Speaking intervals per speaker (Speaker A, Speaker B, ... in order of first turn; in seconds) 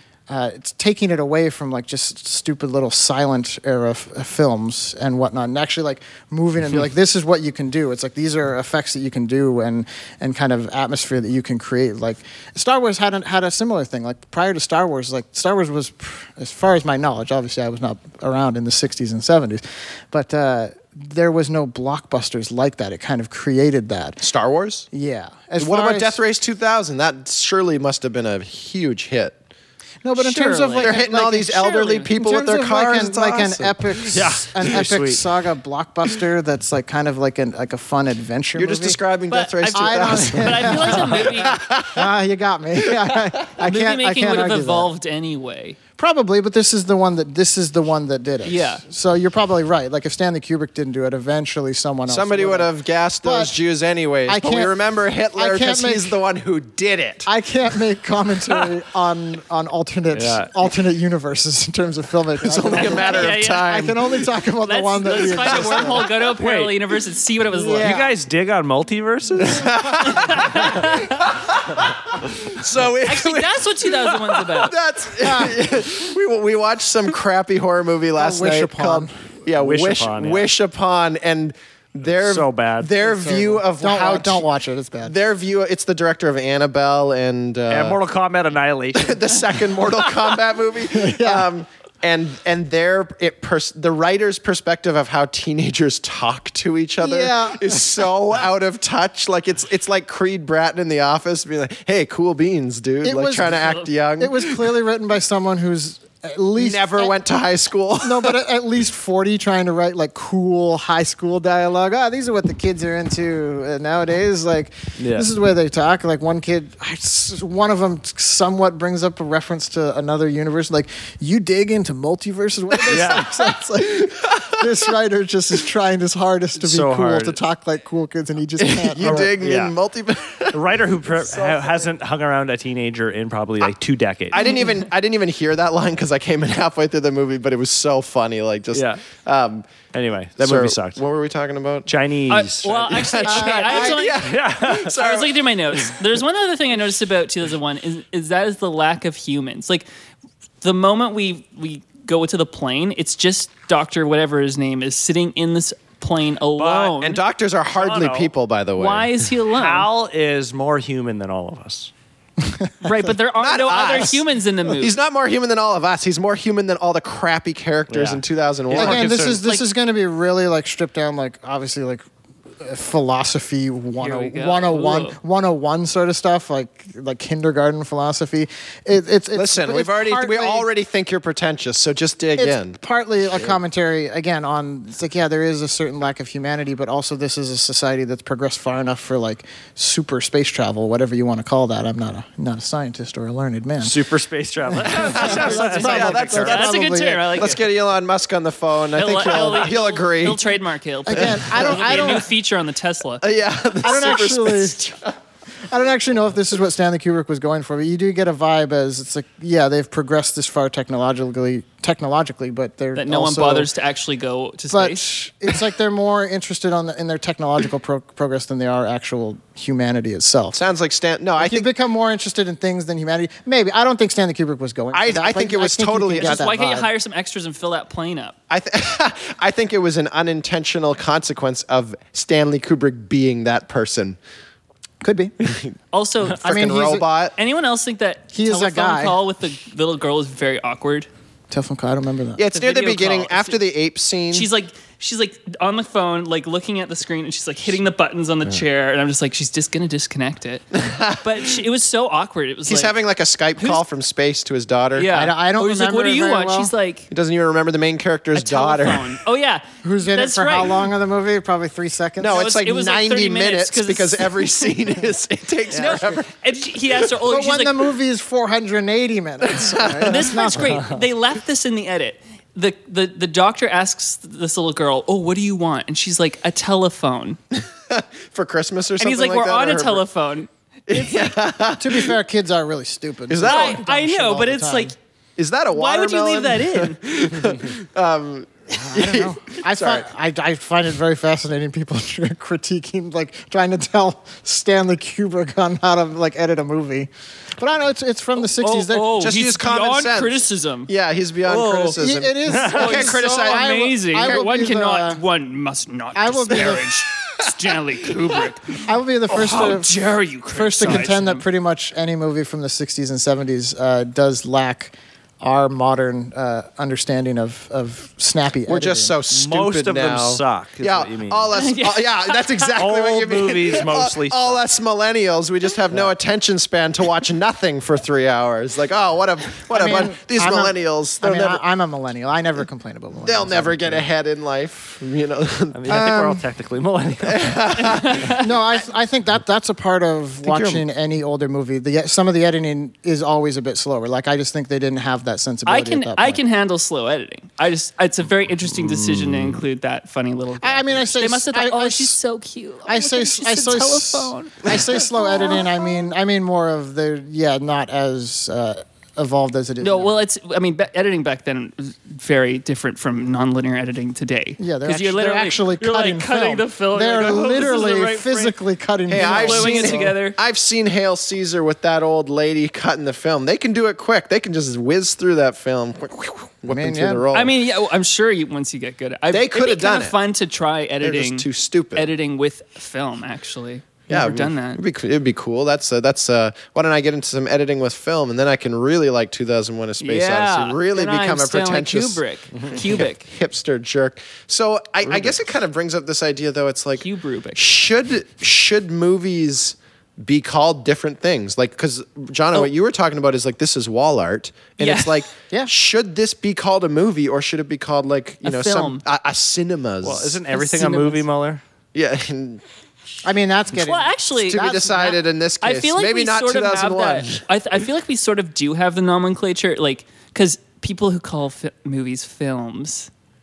Speaker A: 0.3-24.2, 24.9-26.2, 30.0-39.0, 39.7-44.9, 46.0-52.7, 53.2-53.5, 54.2-54.7, 55.3-56.1, 57.2-66.1, 67.5-68.2, 75.2-75.6, 78.2-79.1, 83.0-85.1, 90.9-91.5, 97.0-97.8, 103.0-107.1, 108.0-129.4, 143.2-144.1, 162.4-163.1, 168.7-172.0, 172.6-180.7, 182.4-194.0, 194.7-197.4, 201.1-202.3, 203.8-204.8, 205.7-213.7, 214.7-220.6, 221.4-226.9, 235.0-235.3, 236.4-237.1, 238.3-239.2, 241.5-242.4, 255.1-256.7, 259.8-262.5, 267.2-270.9, 281.8-284.9, 288.7-299.2, 301.9-305.2, 306.1-306.9, 308.8-319.1, 329.7-334.0, 335.9-336.4, 338.3-346.4, 350.6-352.2, 352.8-360.2, 364.6-370.1, 376.7-377.2, 413.2-415.1
Speaker B: 24.2-24.9, 25.6-29.4, 30.8-34.1, 38.5-42.1, 52.1-57.3, 62.4-64.2, 65.2-66.0, 69.4-73.7, 74.3-84.5, 85.0-88.0, 89.0-104.7, 106.6-108.3, 124.2-124.6, 128.6-131.9, 134.3-139.7, 140.4-141.9, 142.6-145.4, 156.9-159.1, 163.4-169.2, 179.3-182.8, 194.9-200.5, 201.1-202.2, 203.2-205.1, 220.5-221.7, 224.9-226.4, 228.5-234.2, 235.4-235.7, 236.3-237.3, 242.3-244.5, 250.7-251.3, 252.7-255.1, 257.1-259.2, 262.2-266.2, 269.4-270.2, 277.5-280.0, 280.9-282.1, 283.3-283.8, 285.4-290.1, 299.1-304.5, 318.7-331.6, 333.2-336.4, 337.2-338.4, 340.4-340.8, 369.1-377.5, 379.3-380.1, 381.0-382.1, 384.1-410.4, 411.9-412.6, 414.5-417.4
Speaker C: 30.2-31.0, 31.6-32.1, 39.3-41.6, 43.6-45.8, 48.4-48.8, 62.7-63.8, 64.6-68.0, 70.0-71.2, 73.0-74.8, 142.3-144.2, 144.9-149.9, 150.6-157.2, 158.8-159.9, 162.8-164.9, 174.0-175.2, 195.3-197.6, 198.9-203.2, 212.9-215.0, 226.2-228.3, 235.9-241.1, 242.5-243.6, 244.3-250.7, 251.2-252.9, 253.6-253.8, 254.9-257.1, 258.3-260.8, 262.3-264.7, 265.7-267.8, 270.0-277.4, 279.0-281.3, 283.4-284.9, 285.7-287.0, 298.4-300.9, 301.4-302.0, 302.7-311.4, 321.5-322.8, 337.8-338.5, 345.6-355.7, 359.8-368.6, 369.1-370.4, 377.3-384.8, 390.0-393.3, 397.0-397.7, 404.8-405.3, 408.4-409.0, 410.5-411.2, 413.7-423.1
Speaker D: 34.1-35.2, 60.1-60.5, 66.4-66.8, 67.8-70.2, 79.6-80.5, 82.1-82.9, 87.7-89.4, 115.0-115.3, 122.9-123.3, 126.6-127.4, 129.0-129.7, 130.5-134.4, 138.7-139.0, 139.9-141.0, 141.8-142.7, 144.2-145.0, 156.6-156.9, 157.7-158.3, 159.5-161.9, 167.9-169.4, 193.8-196.4, 302.5-302.8, 319.3-321.6, 322.8-324.6, 335.7-337.6, 392.5-392.8, 395.1-395.4, 410.0-411.6